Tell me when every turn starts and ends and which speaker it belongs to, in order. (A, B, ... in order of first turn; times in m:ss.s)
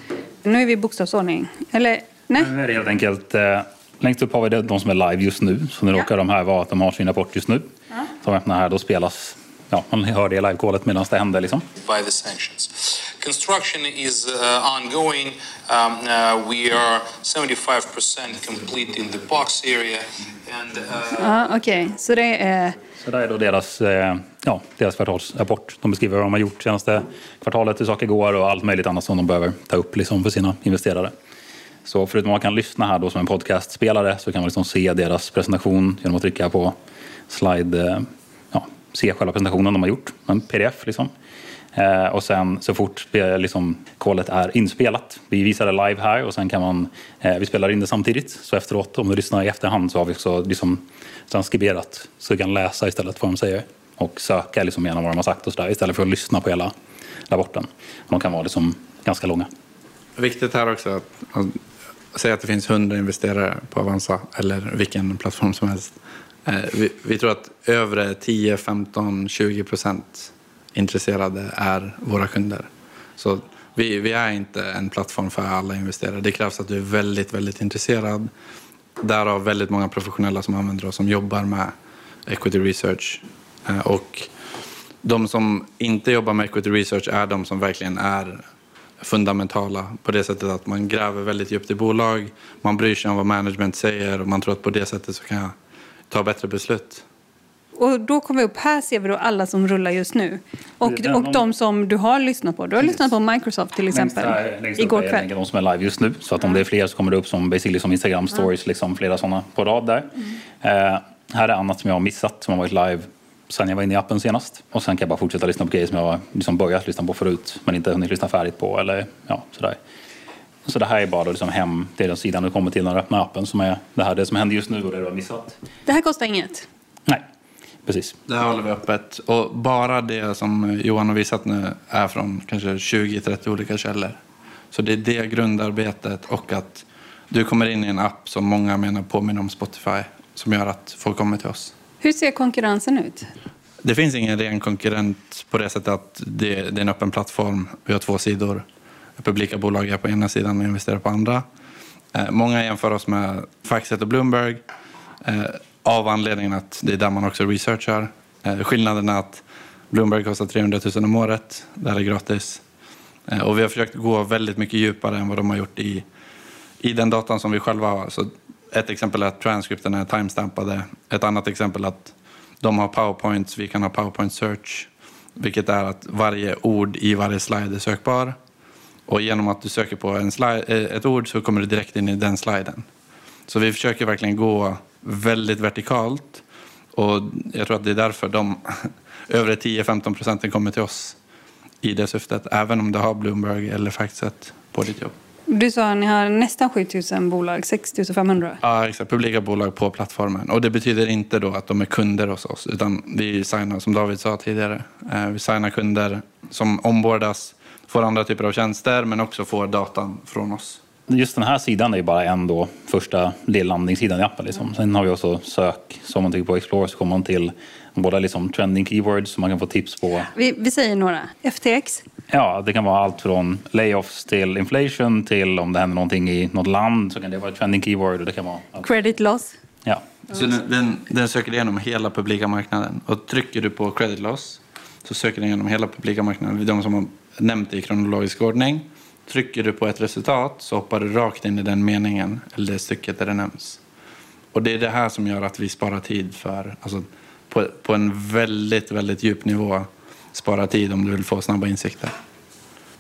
0:00.4-0:02.5 A
0:02.4-0:07.7 B
0:08.2-0:11.6 B
0:11.8-0:21.3 C
0:21.2-0:22.8 A
0:23.0-0:31.1 B
0:31.8-0:36.8 B
0:37.3-0:41.1 B
0:41.8-0:56.7 B
0:57.3-0:59.5 B
1:00.2-1:01.6 D
1:02.1-1:18.3 D
1:19.0-1:21.7 D
1:22.3-1:24.3 D
1:25.0-1:28.4 D
1:29.0-1:35.6 D
1:36.1-1:37.0 D
1:37.8-1:45.3 A
1:40.8-1:41.4 B
1:43.9-1:59.8 B
2:00.6-2:05.6 B
2:05.9-2:06.7 A
2:07.9-2:08.1 B
2:08.3-2:14.2 D
2:14.7-2:21.7 D
2:22.0-2:23.3 A
2:23.8-2:28.7 D
2:29.2-2:31.4 D
2:32.1-2:34.6 D
2:35.2-2:42.6 D
2:43.3-2:46.0 D
2:46.8-2:58.4 D
2:59.1-3:02.9 D
3:03.5-3:06.4 D
3:06.9-3:11.2 D
3:11.8-3:15.2 D
3:15.5-3:18.6 A
3:18.6-3:30.8 D
3:31.1-3:40.3 B
3:40.4-3:42.0 A
3:42.3-3:48.9 B
3:48.8-3:49.6 A
3:50.3-4:03.8 D
4:04.5-4:12.2 D